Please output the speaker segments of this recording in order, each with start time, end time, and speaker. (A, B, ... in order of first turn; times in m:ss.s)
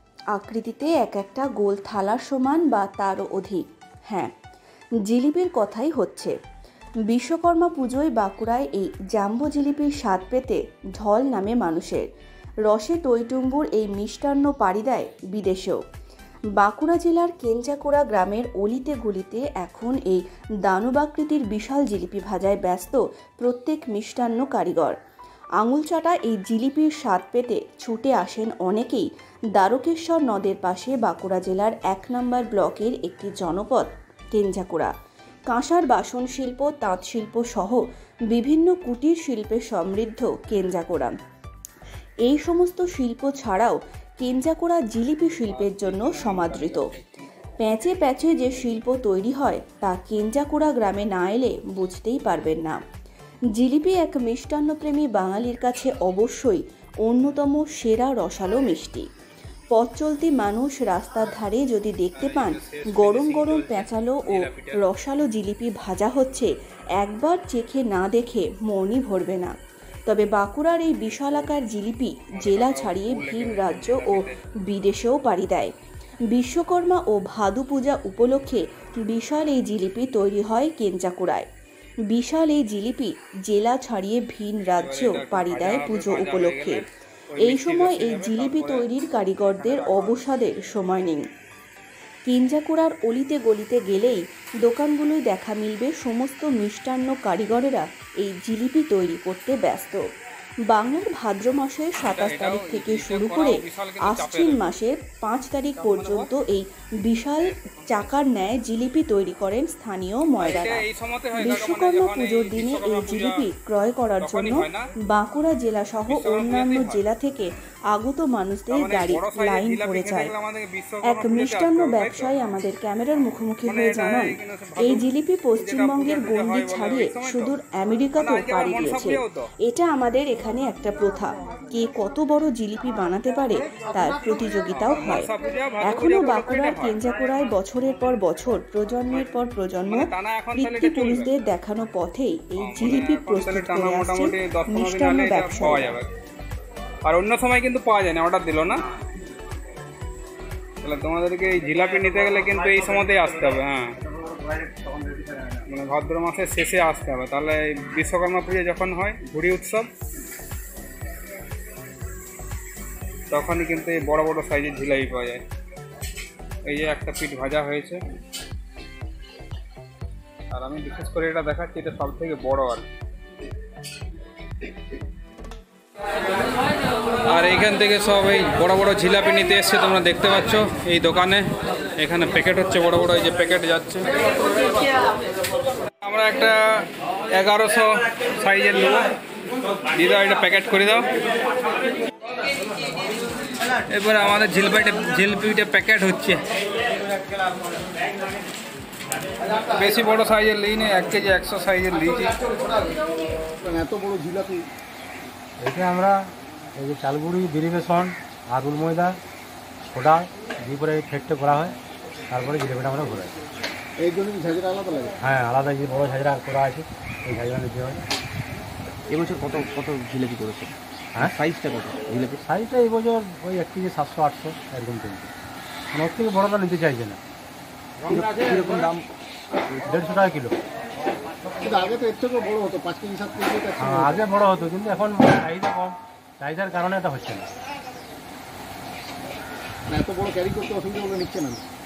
0:00.3-0:04.3 A
0:05.1-0:06.3 A
0:07.1-0:12.0 A
0:12.7-0:15.8 A
0:16.6-0:25.0 A
0:25.6-0:34.9 A
0:35.5-0:41.1 A
0:42.3-0:46.9 A
0:45.5-0:47.2 B
0:47.6-0:52.8 A
0:53.6-0:59.1 A
0:59.7-1:09.5 A
1:02.2-1:04.8 B
1:10.1-1:15.7 A
1:12.4-1:14.3 B
1:16.3-1:21.5 A
1:22.1-1:26.8 A
1:24.8-1:26.8 B
1:27.3-1:30.2 B
1:27.4-1:31.2 A
1:32.2-1:40.0 A
1:40.7-1:50.8 A
1:42.0-1:44.6 B
1:45.7-1:46.3 B
1:47.5-1:48.2 B
1:50.4-1:53.4 B
1:51.3-2:00.3 A
1:54.2-1:54.8 B
1:56.1-1:57.0 B
1:58.7-2:02.3 B
2:01.1-2:15.3 A
2:03.6-2:05.0 B
2:05.6-2:07.5 B
2:08.2-2:09.4 B
2:14.8-2:17.0 B
2:15.8-2:26.0 A
2:19.9-2:21.3 B
2:22.6-2:26.1 B
2:27.0-2:28.8 B
2:30.8-2:33.9 B
2:35.6-2:39.9 B
2:43.3-2:45.4 B
2:46.6-2:48.0 B
2:50.5-2:52.8 B
2:57.3-3:04.1 B
3:06.0-3:09.1 B
3:09.9-3:11.1 B
3:13.9-3:16.4 B
3:19.7-3:22.4 B
3:23.6-3:24.5 C
3:23.8-3:24.6 D
3:25.6-3:26.1 E
3:26.8-3:29.2 E
3:29.9-3:31.7 E
3:32.3-3:33.3 E
3:34.0-3:35.1 D
3:35.2-3:38.0 E
3:39.1-3:42.4 C
3:42.4-3:45.3 E
3:45.9-3:47.2 E
3:48.1-3:49.0 C
3:49.8-3:50.6 E
3:51.7-3:53.9 D
3:53.8-3:57.5 E
3:59.9-4:01.6 D